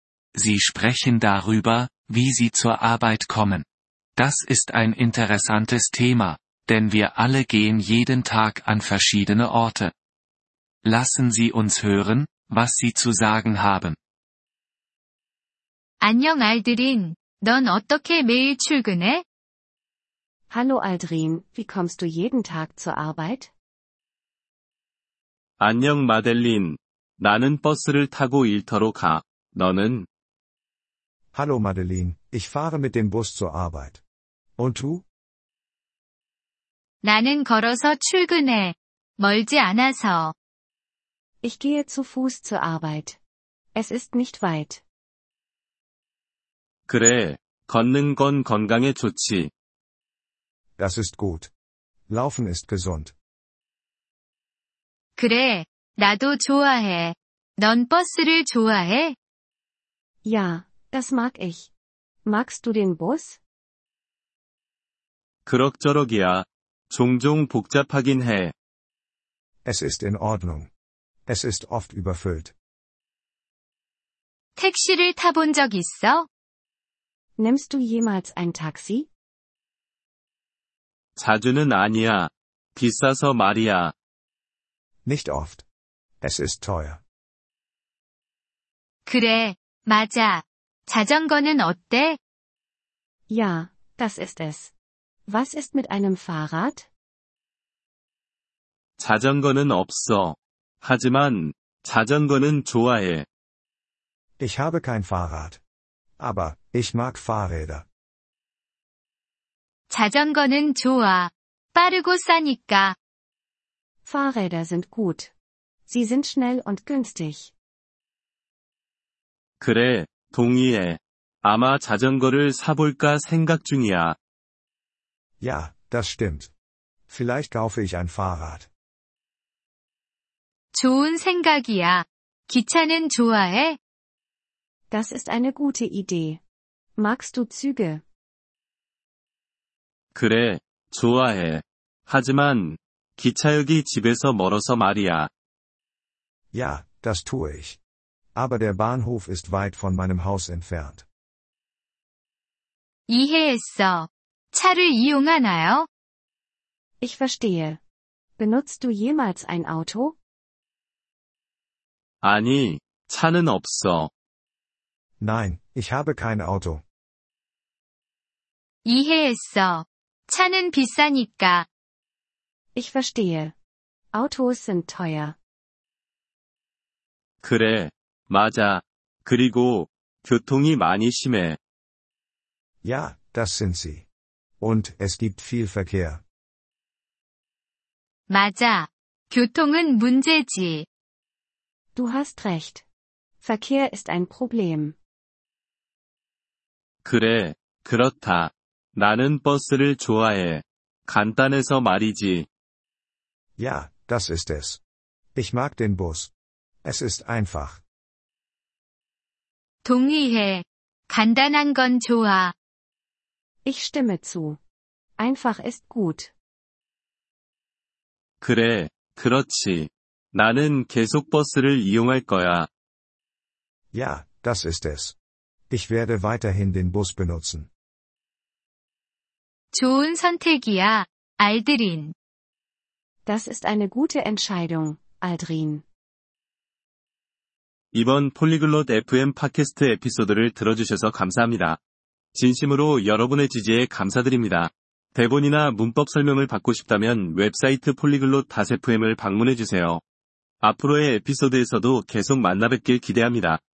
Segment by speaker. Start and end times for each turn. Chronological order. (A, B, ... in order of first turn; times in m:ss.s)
0:00.3-0:03.7 A
0:04.2-0:09.9 A
0:10.8-0:14.0 A
0:16.0-0:19.2 B
0:20.5-0:23.5 C
0:25.6-0:30.1 D
0:31.3-0:34.0 E
0:34.6-0:35.0 E
0:37.0-0:40.3 B
0:41.4-0:43.2 C
0:43.8-0:44.8 C
0:46.9-0:49.5 D
0:50.8-0:51.5 E
0:52.1-0:53.1 E
0:55.2-0:59.2 B
1:00.2-1:01.7 C
1:02.3-1:03.4 C
1:05.4-1:08.5 D
1:09.6-1:10.7 E
1:11.3-1:12.5 E
1:14.6-1:16.3 B
1:17.4-1:19.1 C
1:21.2-1:23.9 D
1:25.0-1:25.6 E
1:26.2-1:27.0 E
1:29.1-1:32.2 B
1:33.3-1:34.7 C
1:35.3-1:36.9 C
1:39.0-1:43.3 D
1:44.4-1:45.6 E
1:46.2-1:47.9 E
1:49.9-1:53.0 B
1:54.1-1:55.3 C
1:55.9-1:57.5 C
1:59.6-2:04.2 D
2:05.4-2:06.5 E
2:07.1-2:08.7 E
2:10.7-2:13.8 B
2:14.9-2:16.4 C
2:17.0-2:18.0 C
2:20.1-2:25.3 D
2:26.5-2:27.8 E
2:28.3-2:31.0 E
2:33.1-2:35.9 B
2:37.0-2:37.8 C
2:38.4-2:40.2 C
2:42.2-2:44.1 D
2:45.2-2:46.8 E
2:48.8-2:51.7 B
2:52.7-2:53.5 C
2:54.1-2:55.4 C
2:57.4-3:01.6 D
3:02.8-3:04.0 E
3:04.6-3:06.2 E
3:08.3-3:10.9 B
3:11.9-3:12.8 C
3:13.4-3:15.0 C
3:17.0-3:22.5 D
3:23.6-3:24.8 E
3:25.3-3:26.3 E
3:26.8-3:27.8 E
3:29.8-3:32.5 B
3:33.6-3:34.6 C
3:35.2-3:36.3 C
3:38.4-3:42.7 D
3:43.9-3:45.2 E
3:45.7-3:47.7 E
3:49.7-3:52.1 B
3:53.2-3:55.8 C
3:57.9-4:01.8 D
4:02.3-4:10.0 D
4:10.6-4:13.6 D